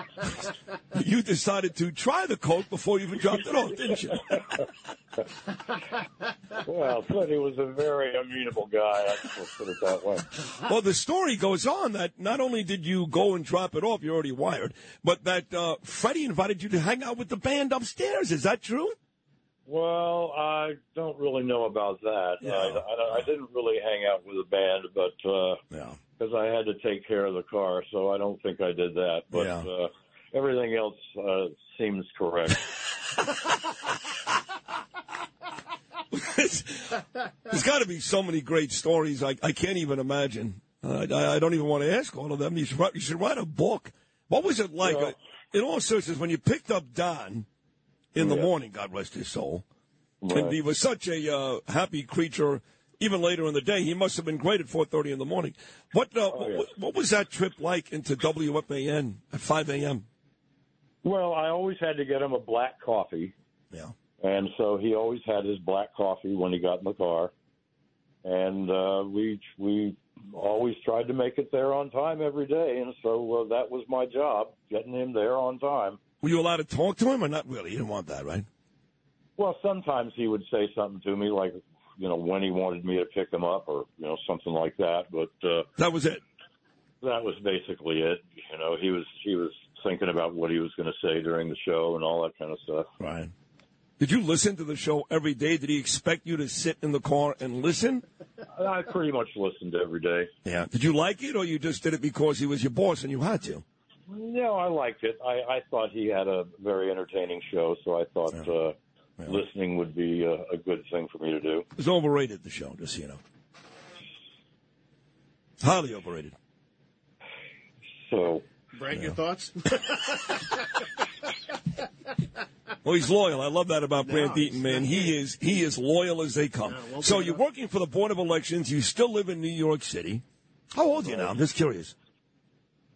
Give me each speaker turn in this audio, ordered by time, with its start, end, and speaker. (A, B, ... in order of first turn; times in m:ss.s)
0:00.9-0:04.7 A
0:06.6-0:10.3 B
0:10.5-0:19.0 A
0:19.7-0:25.6 B
0:22.4-0:22.8 A
0:25.7-0:26.0 A
0:26.2-0:32.6 B
0:29.3-0:29.7 A
0:36.1-0:47.5 A
0:48.1-0:49.6 A
0:48.2-0:48.5 B
0:50.2-0:50.6 B
0:50.3-1:00.1 A
0:56.3-0:56.7 B
1:01.0-1:03.3 B
1:04.2-1:07.3 B
1:08.2-1:16.0 B
1:16.2-1:18.5 A
1:19.4-1:25.7 B
1:25.8-1:26.2 A
1:27.0-1:32.9 B
1:33.0-1:33.3 A
1:34.0-1:38.0 A
1:38.5-1:40.3 B
1:40.4-1:43.6 A
1:44.1-1:51.6 B
1:51.8-1:53.2 A
1:55.6-1:56.4 A
1:58.1-1:58.4 B
1:58.7-2:00.6 C
2:02.8-2:11.9 A
2:04.0-2:05.2 C
2:06.7-2:07.4 C